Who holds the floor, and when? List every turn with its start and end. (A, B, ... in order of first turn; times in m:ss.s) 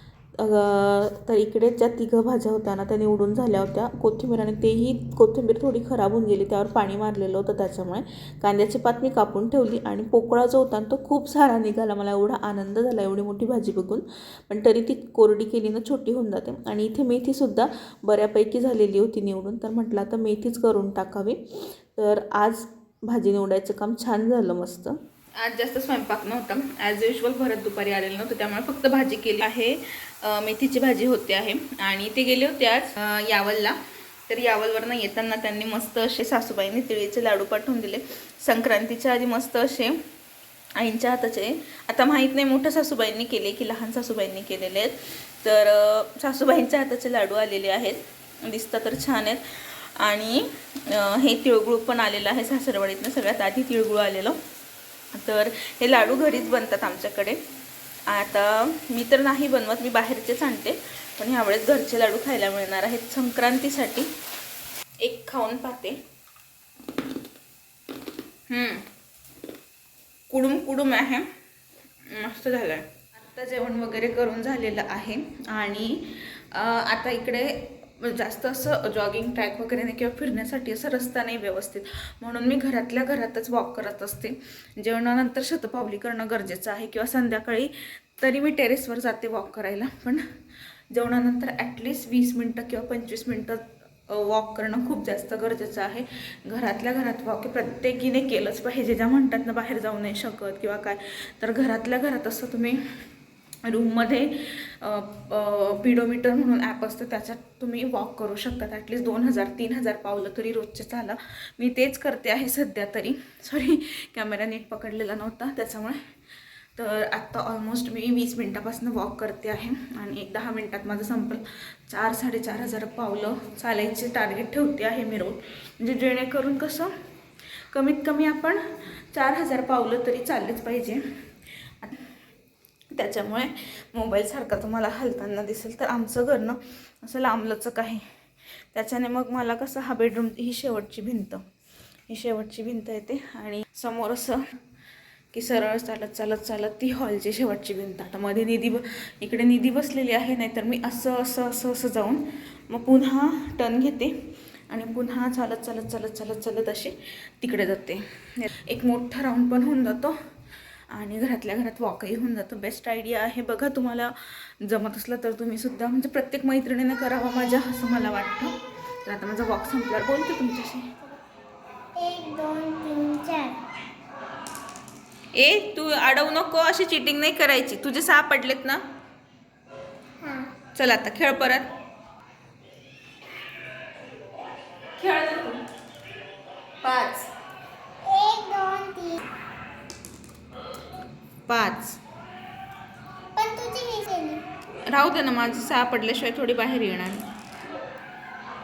0:00.4-0:33.8 A
0:34.3-0:40.0 A
0:40.8-0:54.4 A
0:55.1-0:57.4 A
0:58.1-1:04.1 A
1:05.0-1:06.0 A
1:08.5-1:08.9 A
1:10.3-1:11.3 A
1:12.1-1:30.2 A
1:30.9-1:42.8 A
1:43.6-1:56.0 A
1:56.8-2:06.9 A
2:07.7-2:11.0 A
2:11.7-2:12.1 A
2:12.9-2:18.1 A
2:18.7-2:21.5 A
2:22.1-2:24.4 A
2:25.3-2:40.2 A
2:40.9-2:50.9 A
2:52.0-2:53.6 B
2:55.3-2:58.8 A
3:00.2-3:00.5 B
3:00.6-3:01.7 A
3:05.0-3:05.6 A
3:06.8-3:07.3 A
3:08.0-3:09.2 B
3:11.5-3:12.0 A
3:13.3-3:14.4 B
3:14.8-3:17.2 A